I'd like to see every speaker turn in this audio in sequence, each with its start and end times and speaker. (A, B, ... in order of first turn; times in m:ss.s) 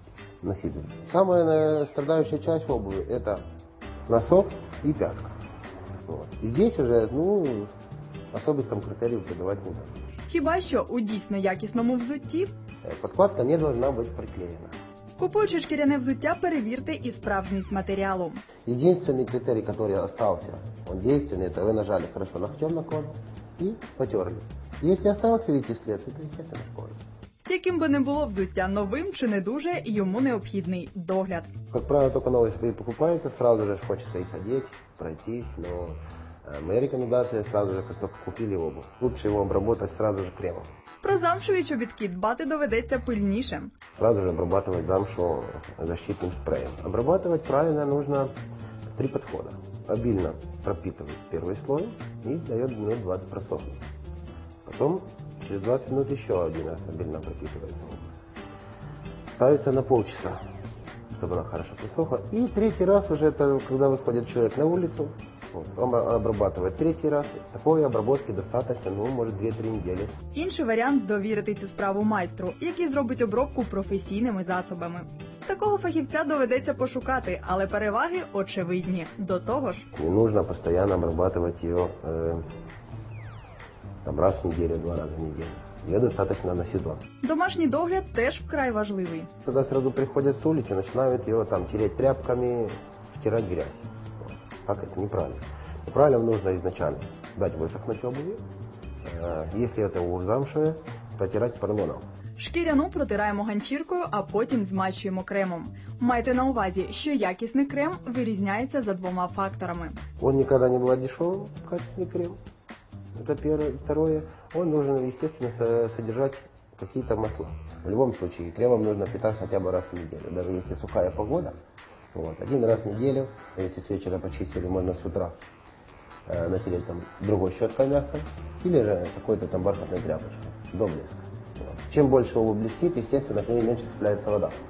0:00.4-0:03.4 A
0:04.1-0:05.4 A
0:06.1-0:07.7 A
0:08.3-0:10.0 A
0:10.3-0:12.5 B
0:12.8-0:14.7 A
0:15.2-0:18.4 B
0:18.7-0:27.0 A
0:27.4-0:31.5 B
0:31.7-0:40.7 A
0:41.0-0:43.7 B
0:44.0-0:48.3 A
0:49.0-0:53.8 A
0:54.6-0:58.2 A
0:59.3-1:00.4 A
1:01.1-1:10.1 A
1:10.3-1:19.9 B
1:19.9-1:22.4 A
1:24.0-1:27.0 A
1:27.2-1:29.3 B
1:29.5-1:38.4 A
1:39.0-1:42.0 A
1:42.4-1:50.0 B
1:50.2-1:52.4 A
1:53.2-2:01.5 A
2:02.1-2:05.3 A
2:06.3-2:14.6 A